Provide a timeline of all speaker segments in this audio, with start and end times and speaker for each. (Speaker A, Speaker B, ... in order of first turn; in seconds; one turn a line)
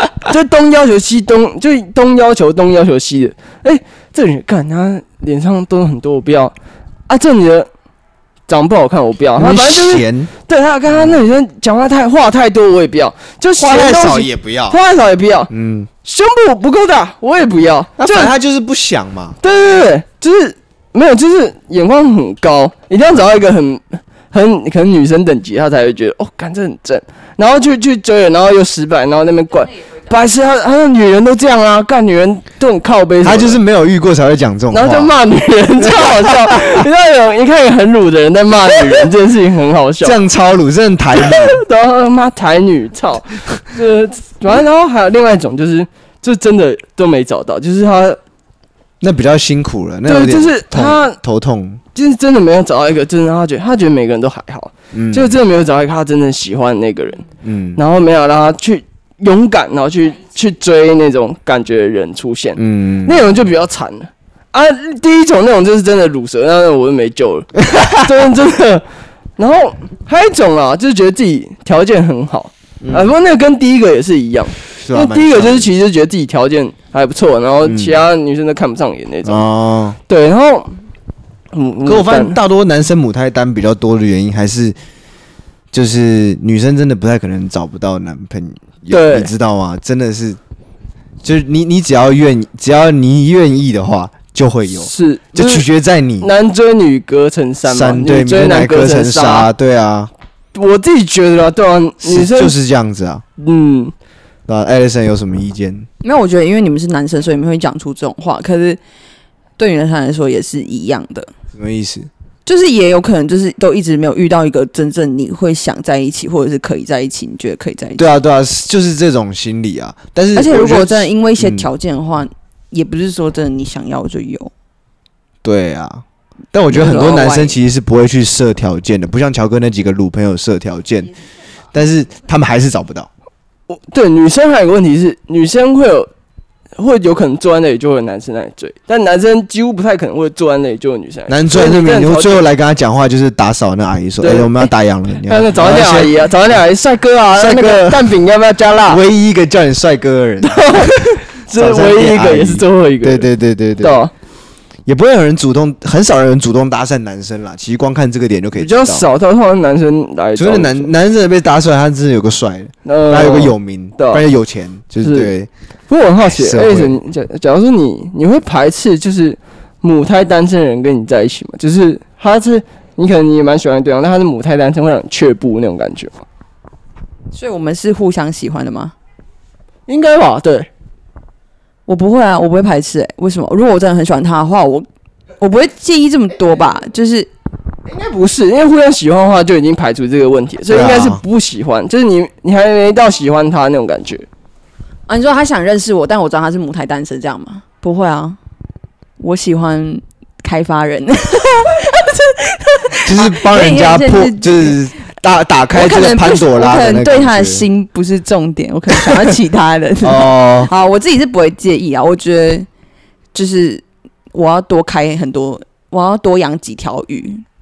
Speaker A: 0.1-6.5
Speaker A: 7.1-7.7
Speaker A: 8.5-15.5
Speaker B: 9.4-10.3
Speaker B: 10.9-11.2
Speaker B: 13.6-14.8
Speaker B: 15.5-15.9
Speaker A: 16.0-18.3
Speaker B: 18.0-19.4
Speaker A: 19.4-33.6
Speaker B: 33.2-35.2
Speaker A: 34.7-40.2
Speaker B: 35.9-36.8
Speaker B: 40.0-41.6
Speaker A: 41.1-48.2
Speaker B: 49.0-51.8
Speaker A: 50.1-51.2
Speaker A: 52.0-68.9
Speaker B: 54.9-55.4
Speaker B: 57.4-57.8
Speaker B: 62.6-63.4
Speaker B: 67.6-68.1
Speaker A: 69.4-79.4
Speaker B: 72.8-73.1
Speaker B: 74.8-75.7
Speaker B: 77.6-78.0
Speaker B: 79.2-80.0
Speaker A: 80.1-80.8
Speaker A: 81.5-82.4
Speaker B: 81.8-84.8
Speaker B: 85.7-90.4
Speaker A: 88.9-89.3
Speaker B: 91.2-96.3
Speaker A: 94.8-95.7
Speaker A: 96.2-99.5
Speaker B: 97.6-100.1
Speaker A: 100.5-102.5
Speaker B: 102.0-103.2
Speaker A: 103.4-103.9
Speaker B: 104.5-105.9
Speaker C: 106.0-108.8
Speaker C: 109.6-111.3
Speaker B: 111.6-112.1
Speaker C: 112.5-118.1
Speaker B: 118.0-121.7
Speaker C: 120.3-124.5
Speaker B: 125.4-131.1
Speaker C: 126.7-127.6
Speaker B: 131.7-133.1
Speaker A: 133.7-136.1
Speaker A: 136.8-142.4
Speaker B: 141.3-146.2
Speaker A: 144.2-144.7
Speaker A: 145.3-149.0
Speaker B: 147.3-148.1
Speaker B: 148.9-154.0
Speaker A: 150.4-153.3
Speaker A: 153.8-154.1
Speaker B: 154.9-159.1
Speaker A: 158.6-160.9
Speaker B: 160.3-165.5
Speaker A: 162.8-164.2
Speaker A: 165.0-165.3
Speaker A: 165.9-176.2
Speaker B: 166.2-166.9
Speaker C: 177.3-178.9
Speaker A: 179.9-180.7
Speaker C: 181.9-184.9
Speaker C: 185.4-187.3
Speaker A: 187.9-194.3
Speaker B: 190.7-191.2
Speaker C: 195.1-198.4
Speaker C: 199.2-204.8
Speaker B: 203.0-207.6
Speaker C: 205.7-212.7
Speaker B: 210.0-210.7
Speaker C: 213.3-217.4